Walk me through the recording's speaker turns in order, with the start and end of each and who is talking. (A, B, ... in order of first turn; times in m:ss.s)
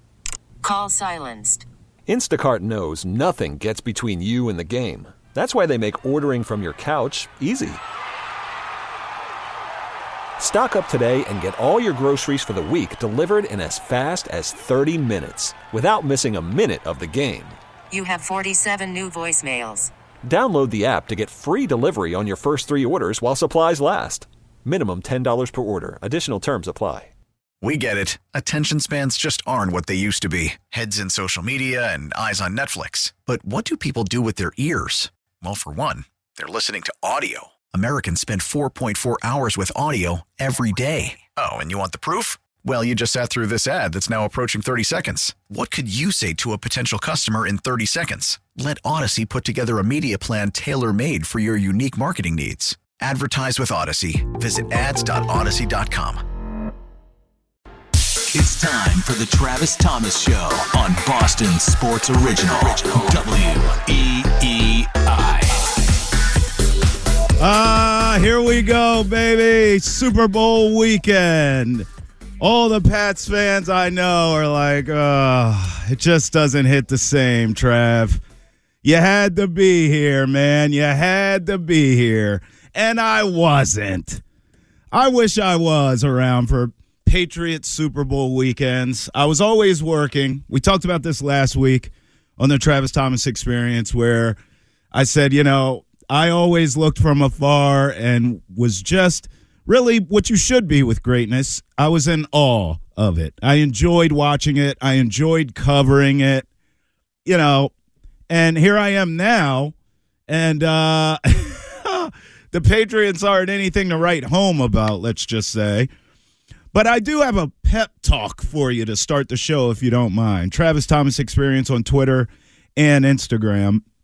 0:00.6-0:01.7 A
0:02.1-0:07.8 B
0:10.4-0:17.6 B
0:17.9-0:19.9 A
0:20.2-0:27.1 B
0:27.6-0:56.2 C
0:58.3-1:05.8 D
1:07.4-1:11.9 E
1:12.4-1:18.2 E
1:18.8-1:24.2 E
1:24.9-1:34.4 E
1:34.9-1:46.4 E
1:47.2-1:47.7 E
1:48.3-1:49.7 E
1:50.3-1:55.9 E
1:56.7-2:03.8 E